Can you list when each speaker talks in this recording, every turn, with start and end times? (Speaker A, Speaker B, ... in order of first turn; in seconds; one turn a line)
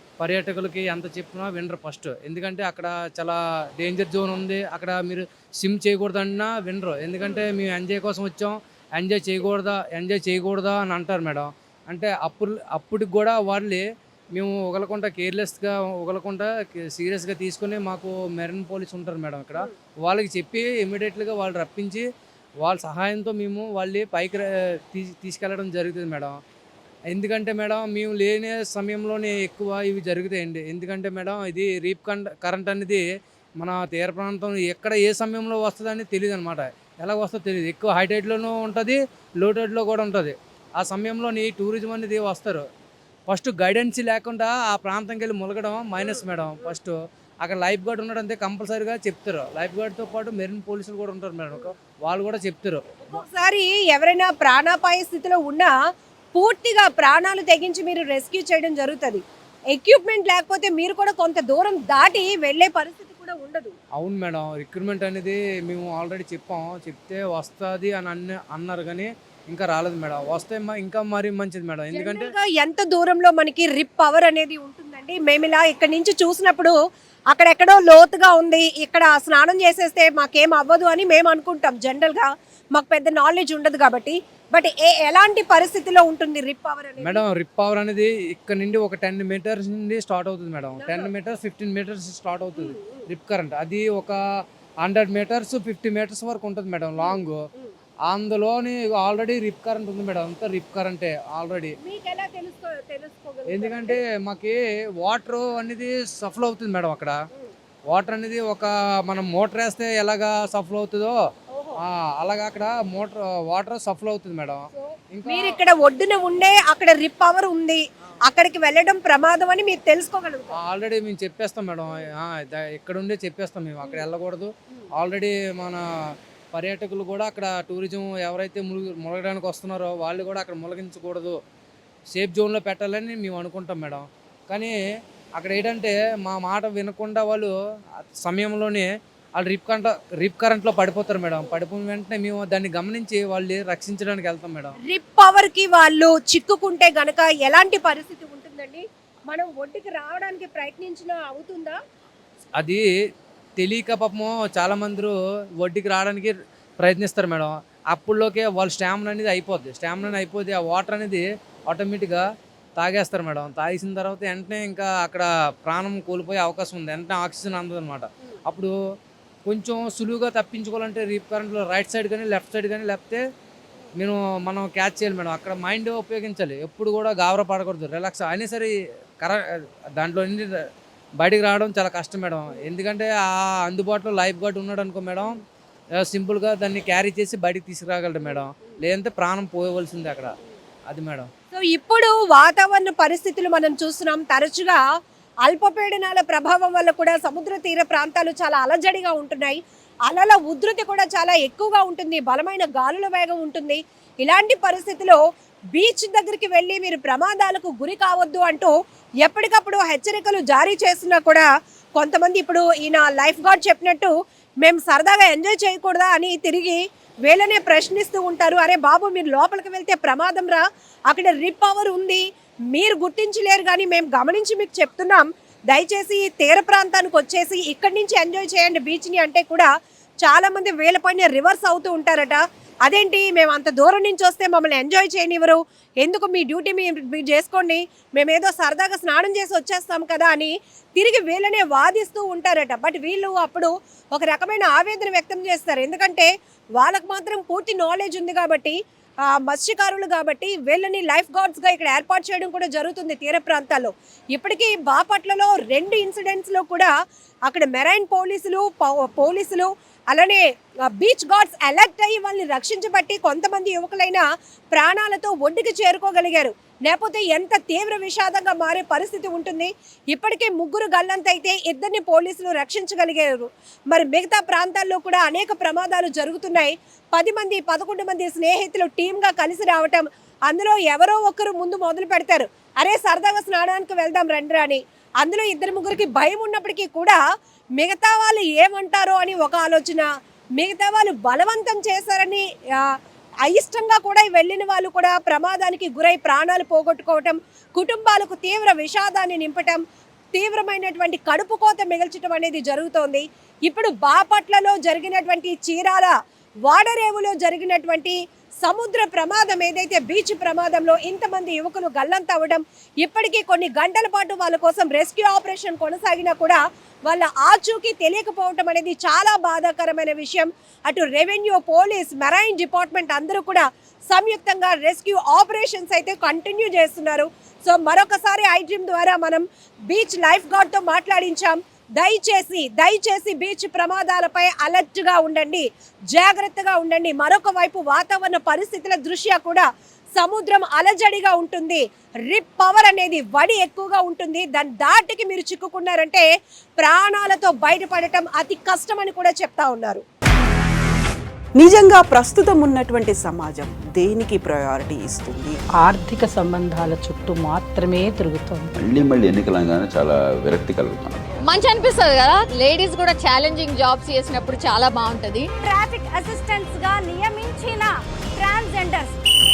Speaker A: 0.2-22.0
Speaker A: 22.6-26.4
Speaker A: 27.1-33.0
Speaker A: 33.6-42.6
Speaker A: 43.3-53.2
Speaker B: 53.1-55.7
Speaker B: 56.3-59.2
Speaker B: 59.7-63.7
Speaker A: 64.0-72.2
Speaker B: 71.9-76.7
Speaker B: 77.3-87.2
Speaker A: 87.0-94.2
Speaker B: 90.8-91.1
Speaker B: 92.5-93.0
Speaker A: 94.8-97.4
Speaker B: 97.0-97.7
Speaker A: 98.1-101.7
Speaker B: 101.8-104.0
Speaker A: 103.5-107.2
Speaker A: 107.9-111.2
Speaker B: 111.5-111.8
Speaker A: 111.8-115.6
Speaker B: 114.7-120.6
Speaker A: 120.6-125.8
Speaker A: 126.5-131.3
Speaker A: 132.1-134.7
Speaker A: 135.4-137.5
Speaker A: 138.2-144.7
Speaker B: 144.8-151.8
Speaker A: 153.6-162.2
Speaker A: 162.8-168.7
Speaker A: 169.4-173.2
Speaker A: 174.0-180.5
Speaker A: 181.2-185.4
Speaker A: 186.0-190.3
Speaker A: 190.9-191.3
Speaker B: 191.5-194.8
Speaker B: 195.4-205.2
Speaker B: 205.7-208.7
Speaker B: 209.2-214.1
Speaker B: 214.6-229.7
Speaker B: 230.2-248.8
Speaker B: 249.3-256.9
Speaker B: 257.4-287.2
Speaker B: 287.8-290.1
Speaker B: 290.6-292.9
Speaker B: 293.4-299.8
Speaker B: 300.3-306.1
Speaker B: 306.7-339.6
Speaker B: 340.2-346.2
Speaker B: 346.8-350.0
Speaker C: 351.6-355.6
Speaker D: 355.8-358.7
Speaker E: 358.7-361.2
Speaker F: 361.4-365.5
Speaker G: 365.6-369.2